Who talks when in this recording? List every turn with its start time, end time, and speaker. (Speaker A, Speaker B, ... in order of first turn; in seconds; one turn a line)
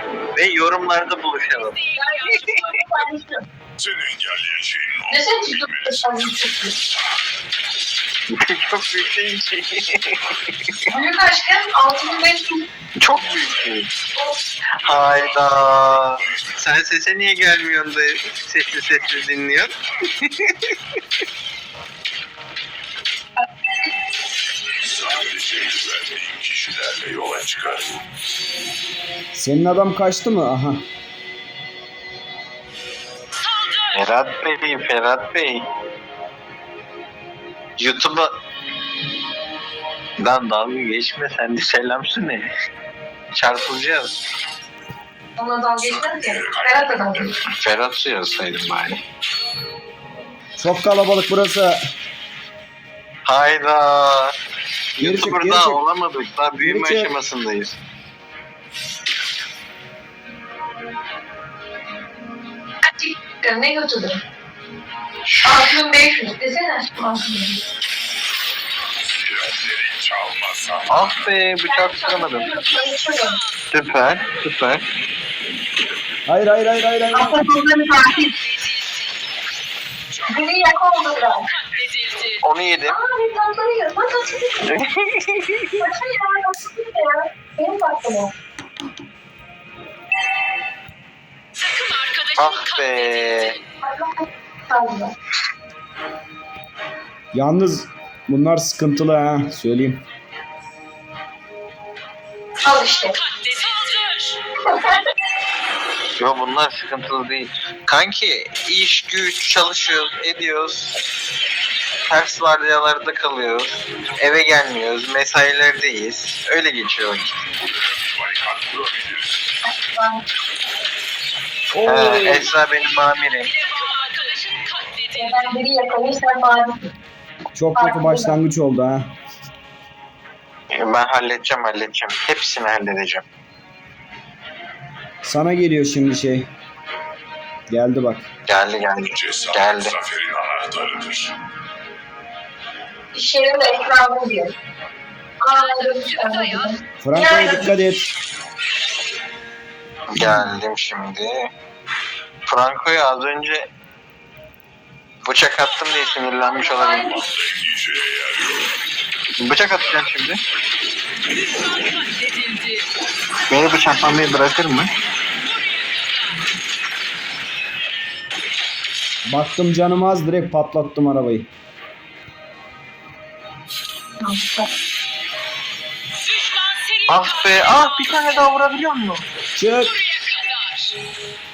Speaker A: 0.3-1.8
Speaker B: 1.5-2.8
Speaker C: 1.9-3.4
Speaker D: 3.8-6.7
Speaker C: 5.1-6.8
Speaker A: 8.3-10.2
Speaker C: 10.9-12.6
Speaker A: 13.0-13.9
Speaker D: 14.8-16.6
Speaker A: 14.8-20.7
Speaker D: 24.7-27.9
Speaker E: 29.3-30.8
Speaker B: 33.4-33.9
Speaker A: 33.9-35.6
Speaker A: 37.8-38.3
Speaker A: 40.2-42.5
Speaker A: 43.3-44.1
Speaker C: 45.4-47.3
Speaker D: 45.8-47.1
Speaker A: 47.2-49.0
Speaker E: 50.6-51.8
Speaker A: 53.2-54.3
Speaker A: 55.0-57.7
Speaker E: 55.0-55.8
Speaker E: 56.6-57.1
Speaker C: 62.9-64.2
Speaker C: 65.4-67.6
Speaker D: 69.1-71.3
Speaker A: 70.9-72.5
Speaker C: 71.7-73.4
Speaker B: 73.2-73.5
Speaker A: 73.7-74.8
Speaker E: 76.3-77.4
Speaker C: 77.1-78.3
Speaker B: 78.2-79.1
Speaker D: 80.1-80.5
Speaker C: 80.2-81.5
Speaker B: 81.5-82.4
Speaker A: 82.4-83.0
Speaker C: 82.8-84.7
Speaker A: 84.7-85.8
Speaker C: 85.8-88.3
Speaker B: 91.6-93.6
Speaker A: 92.4-93.6
Speaker C: 93.8-95.1
Speaker E: 97.3-100.0
Speaker C: 102.6-103.2
Speaker B: 103.2-104.4
Speaker C: 104.7-105.0
Speaker A: 106.2-110.9
Speaker A: 112.1-117.4
Speaker D: 117.6-119.4
Speaker C: 119.7-120.2
Speaker E: 121.7-122.5
Speaker A: 121.8-123.5
Speaker B: 123.4-125.6
Speaker C: 125.1-126.9
Speaker E: 127.5-129.1
Speaker C: 127.7-128.4
Speaker A: 130.7-133.2
Speaker E: 135.2-136.5
Speaker E: 137.7-138.2
Speaker A: 138.5-139.9
Speaker D: 139.1-141.3
Speaker C: 143.1-144.5
Speaker C: 145.4-147.7
Speaker B: 145.6-146.7
Speaker E: 147.0-148.1
Speaker A: 150.1-151.3
Speaker E: 150.2-150.5
Speaker A: 152.5-153.7
Speaker A: 155.2-157.1
Speaker C: 156.4-157.2
Speaker D: 156.8-158.7
Speaker A: 159.4-160.4
Speaker B: 161.4-162.8
Speaker A: 163.5-164.9
Speaker B: 165.4-166.3
Speaker E: 169.3-171.5
Speaker C: 174.2-174.7
Speaker B: 176.2-178.2
Speaker A: 177.1-179.2
Speaker E: 179.6-179.9
Speaker B: 179.9-180.9